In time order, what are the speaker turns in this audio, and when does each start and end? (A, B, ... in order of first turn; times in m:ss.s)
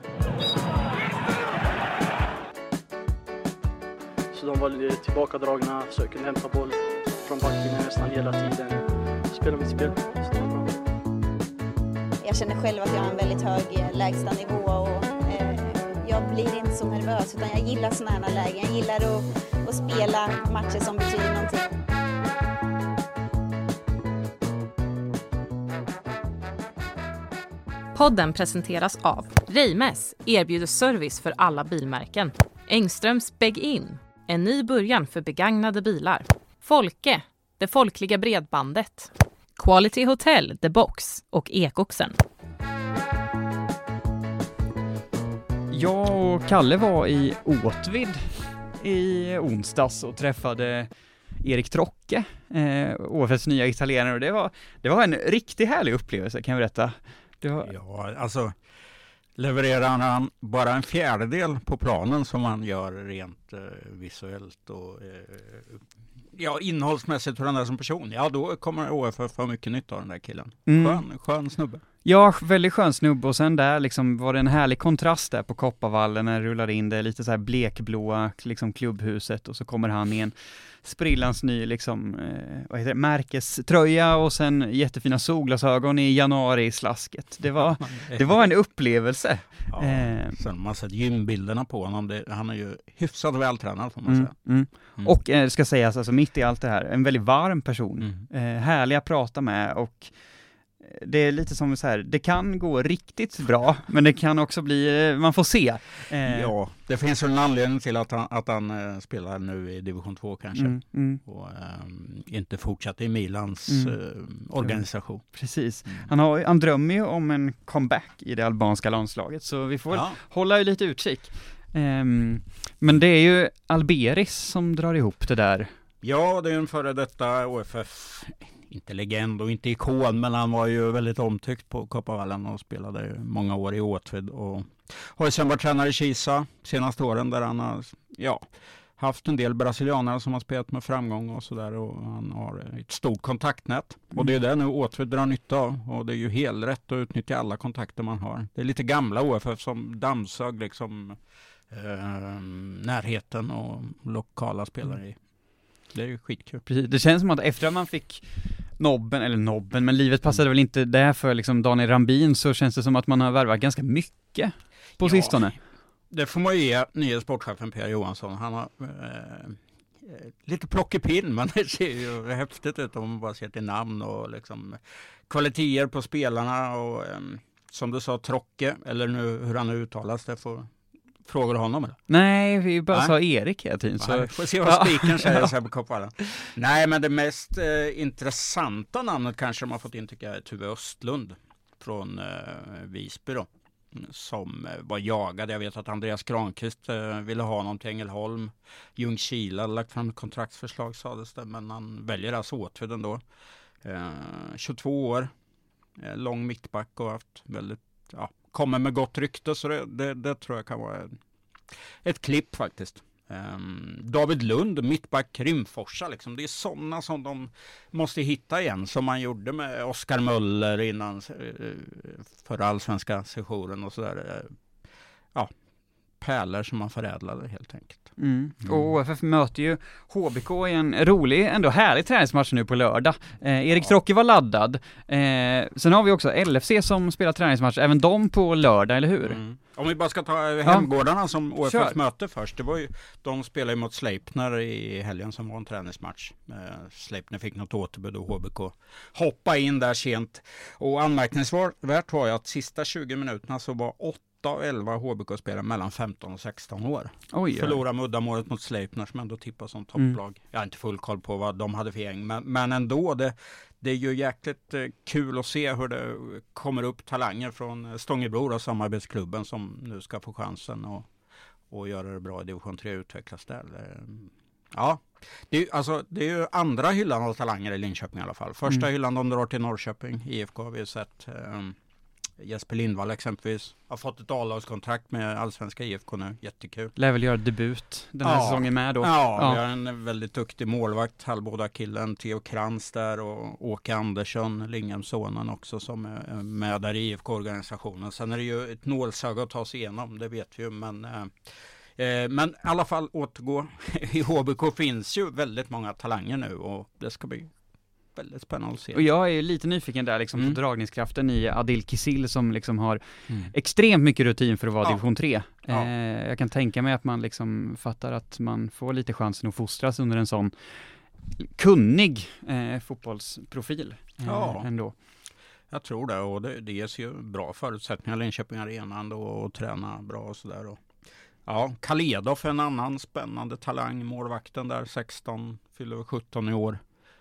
0:04.3-0:10.7 A
0:12.2-0:21.7 B
0:27.9-0:42.2 C
0:45.7-0:50.9 D
0:51.4-0:57.7 D
0:57.6-0:58.5 E
0:59.4-1:11.8 E
1:10.7-1:11.0 D
1:12.0-1:30.4 D
1:27.6-1:28.6 E
1:29.7-1:35.1 E
1:34.0-1:46.5 D
1:38.0-1:38.2 E
1:46.2-1:55.3 E
1:50.6-1:51.2 D
1:53.7-1:54.0 D
1:54.6-2:05.7 D
1:59.9-2:00.2 E
2:06.0-2:18.5 E
2:19.0-2:35.2 E
2:35.9-2:36.7 E
2:36.7-2:45.6 D
2:45.0-2:45.5 E
2:46.1-3:02.0 E
3:02.1-3:05.5 D
3:04.0-3:23.2 E
3:23.8-3:25.3 E
3:26.0-3:31.2 E
3:31.7-3:44.6 E
3:46.2-3:48.1 E
3:48.2-3:59.4 D
3:48.6-3:48.9 E
3:59.2-4:31.1 E
4:01.6-4:02.0 D
4:17.3-4:17.8 D
4:31.7-4:41.8 E
4:42.4-4:46.9 E
4:47.0-4:49.6 D
4:48.2-5:07.6 E
5:08.1-5:09.0 E
5:08.9-5:20.9 D
5:21.4-5:24.9 D
5:24.2-5:24.7 E
5:25.7-5:30.8 E
5:31.4-5:36.8 E